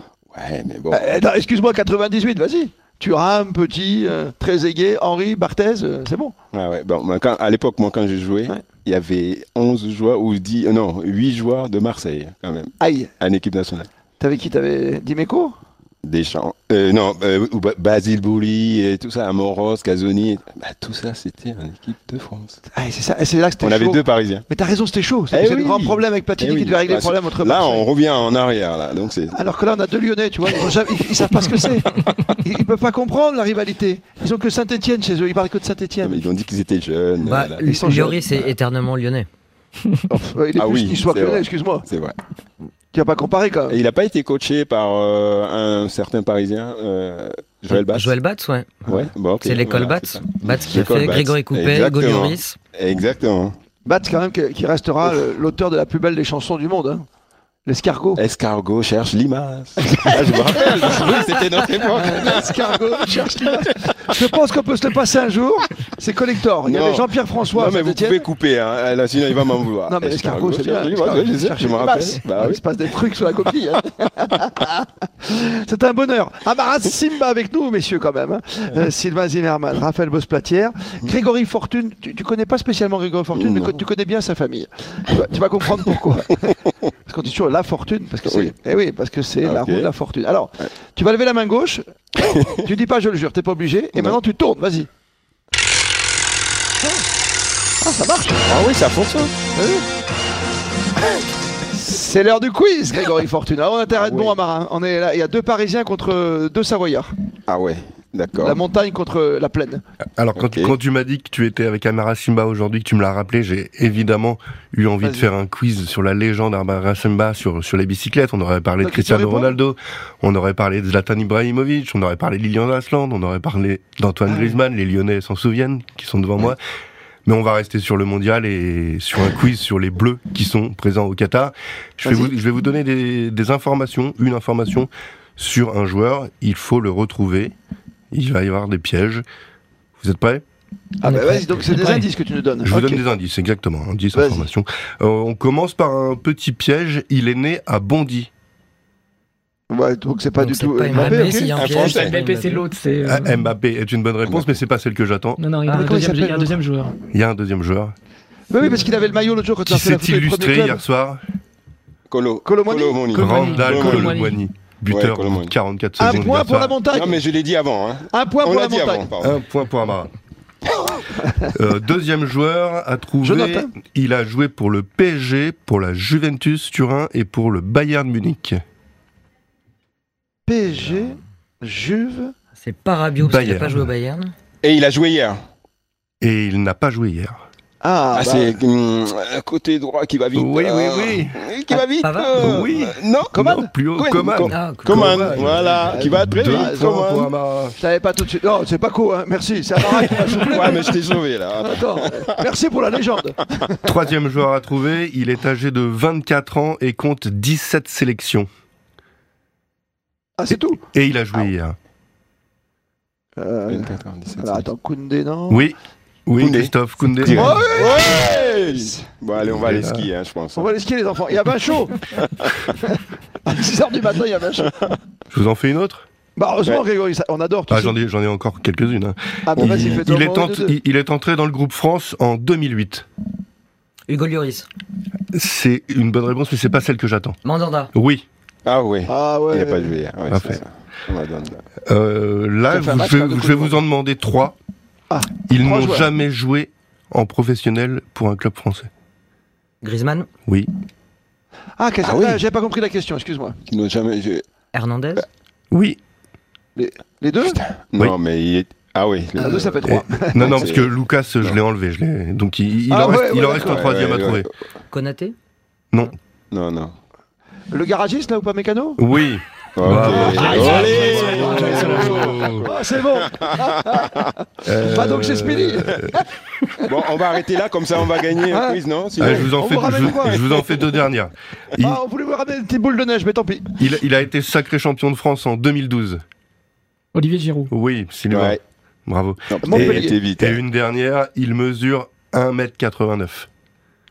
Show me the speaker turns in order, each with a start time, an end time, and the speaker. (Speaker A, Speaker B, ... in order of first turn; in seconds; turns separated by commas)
Speaker A: 0.3-1.1, Speaker B: 0.9-6.3, Speaker A: 6.5-13.9, Speaker B: 12.8-13.1, Speaker B: 14.2-15.6, Speaker A: 16.0-22.6, Speaker B: 22.7-27.9, Speaker A: 23.6-24.4, Speaker A: 25.3-29.4, Speaker B: 29.3-36.3, Speaker A: 36.0-38.1, Speaker C: 37.2-39.3, Speaker B: 37.6-38.5, Speaker B: 40.1-41.9, Speaker A: 40.5-42.2, Speaker B: 42.9-43.8, Speaker A: 43.7-48.1, Speaker C: 47.7-48.9, Speaker A: 48.9-53.5, Speaker C: 49.4-52.5, Speaker B: 53.8-57.0, Speaker B: 57.6-58.2, Speaker A: 58.1-64.2, Speaker B: 59.8-68.2, Speaker A: 66.6-72.6, Speaker B: 69.9-94.9, Speaker A: 83.3-83.8, Speaker A: 88.2-88.5, Speaker A: 89.4-89.9, Speaker A: 92.2-92.6, Speaker B: 97.8-98.5, Speaker A: 98.4-99.3, Speaker B: 99.5-99.8, Speaker B: 101.7-107.1, Speaker A: 103.9-104.4, Speaker A: 107.5-108.6, Speaker B: 108.4-109.8, Speaker D: 110.2-126.6, Speaker A: 110.3-110.7, Speaker B: 115.0-115.3, Speaker B: 118.8-119.5, Speaker D: 127.2-137.5, Speaker B: 132.0-132.3, Speaker D: 138.1-139.2, Speaker D: 140.0-140.4, Speaker B: 141.0-143.0, Speaker C: 141.0-142.1, Speaker D: 142.6-148.3, Speaker B: 144.1-144.5, Speaker B: 149.7-151.6, Speaker C: 150.4-152.6, Speaker E: 150.9-153.4, Speaker A: 151.6-152.1, Speaker D: 153.0-155.4, Speaker A: 154.2-154.5, Speaker E: 155.4-156.9, Speaker C: 155.7-156.3, Speaker B: 155.7-156.6, Speaker D: 157.1-157.9, Speaker B: 158.5-160.8, Speaker D: 159.7-161.2, Speaker A: 162.1-164.2, Speaker B: 162.4-163.1, Speaker E: 163.1-164.4, Speaker D: 163.1-166.8, Speaker A: 164.9-165.5, Speaker B: 166.0-167.2, Speaker A: 166.9-169.4, Speaker B: 168.1-169.1, Speaker D: 169.2-170.1, Speaker B: 171.0-171.5, Speaker D: 171.5-178.6, Speaker B: 173.2-173.7, Speaker B: 180.5-182.3, Speaker C: 182.6-184.3, Speaker D: 183.2-183.8, Speaker A: 184.6-185.4, Speaker D: 186.2-187.4, Speaker B: 187.8-188.5, Speaker A: 188.1-197.3, Speaker D: 190.3-191.5, Speaker C: 191.7-192.6, Speaker D: 192.4-197.8, Speaker B: 193.3-193.7, Speaker C: 194.5-195.5, Speaker B: 195.9-196.9, Speaker B: 197.8-201.0, Speaker A: 200.1-202.4, Speaker B: 201.6-203.9, Speaker D: 203.8-208.5, Speaker B: 210.4-210.8, Speaker D: 210.9-211.8, Speaker B: 213.4-215.7, Speaker A: 213.7-214.7, Speaker D: 215.5-217.6, Speaker A: 216.4-220.7, Speaker B: 217.3-219.1, Speaker D: 219.5-220.1, Speaker B: 220.6-222.1, Speaker B: 222.8-224.7, Speaker D: 225.3-226.0, Speaker B: 226.4-227.9, Speaker D: 227.7-233.1, Speaker B: 229.4-230.8, Speaker A: 229.6-230.0, Speaker C: 234.1-234.7, Speaker D: 235.3-237.4, Speaker C: 237.4-237.9, Speaker D: 237.9-238.2, Speaker A: 238.7-241.6, Speaker B: 239.1-239.9, Speaker D: 240.3-240.6, Speaker D: 241.9-244.6, Speaker B: 242.7-243.8, Speaker B: 245.1-246.1, Speaker D: 245.4-248.9, Speaker C: 249.8-250.3, Speaker B: 251.8-253.6, Speaker A: 252.0-252.4, Speaker A: 253.7-254.4, Speaker C: 254.7-255.2, Speaker D: 255.7-256.0, Speaker B: 256.8-257.6, Speaker A: 257.4-261.6, Speaker B: 259.4-260.6, Speaker D: 259.9-264.5, Speaker B: 262.9-263.9, Speaker A: 263.4-264.5, Speaker C: 264.9-265.3, Speaker A: 266.5-266.9, Speaker B: 267.7-269.0, Speaker D: 269.0-272.7, Speaker A: 269.7-274.2, Speaker B: 269.9-271.2, Speaker E: 270.3-272.4, Speaker B: 271.7-272.0, Speaker B: 272.6-276.9, Speaker D: 274.6-276.2, Speaker A: 276.8-279.5, Speaker B: 278.5-280.4, Speaker D: 279.2-282.0, Speaker B: 281.8-283.7, Speaker D: 283.8-286.2, Speaker E: 287.1-287.7, Speaker D: 287.7-293.5, Speaker A: 288.3-288.6, Speaker A: 289.5-290.6, Speaker B: 289.6-290.2